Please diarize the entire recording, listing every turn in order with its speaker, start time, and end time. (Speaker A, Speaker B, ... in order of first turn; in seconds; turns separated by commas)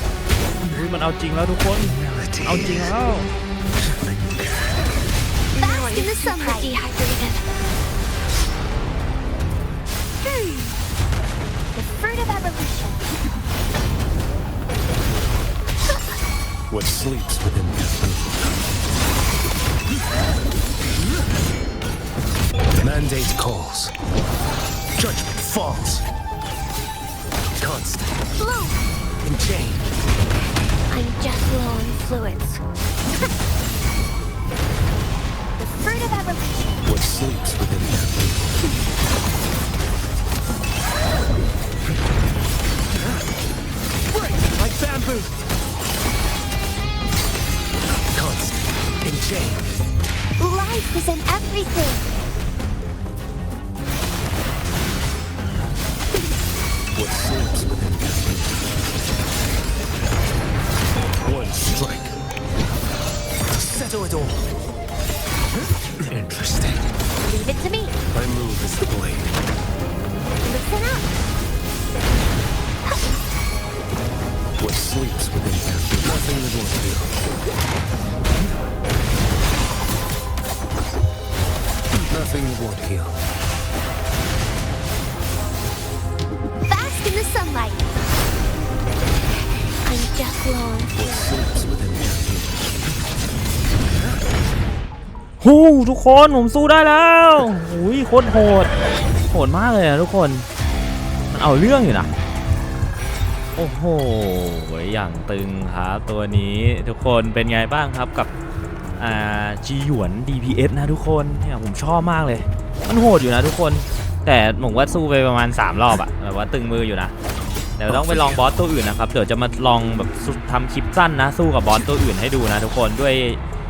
Speaker A: 0.6-3.3, Speaker B: 2.0-3.0, Speaker B: 3.8-4.8, Speaker C: 5.5-7.4, Speaker C: 10.2-10.7, Speaker C: 11.7-13.0, Speaker B: 16.7-18.6, Speaker B: 22.7-23.9, Speaker B: 25.0-26.1, Speaker B: 27.6-28.1, Speaker C: 28.4-28.8, Speaker B: 29.2-30.0, Speaker C: 30.9-32.6, Speaker C: 35.6-36.8, Speaker B: 36.8-38.6, Speaker B: 44.1-45.3, Speaker B: 48.1-49.7, Speaker C: 50.4-52.0, Speaker B: 56.9-58.9, Speaker B: 61.2-62.2, Speaker B: 63.5-64.5, Speaker B: 66.0-67.0, Speaker C: 67.3-68.0, Speaker B: 68.1-69.5, Speaker C: 70.4-71.1, Speaker B: 74.6-77.2, Speaker B: 81.9-83.2, Speaker C: 86.7-87.8, Speaker C: 89.8-91.0, Speaker B: 90.9-92.7, Speaker A: 95.4-98.7, Speaker A: 99.3-100.5, Speaker A: 101.3-102.1, Speaker A: 103.6-108.3, Speaker A: 109.0-117.1, Speaker A: 117.8-123.4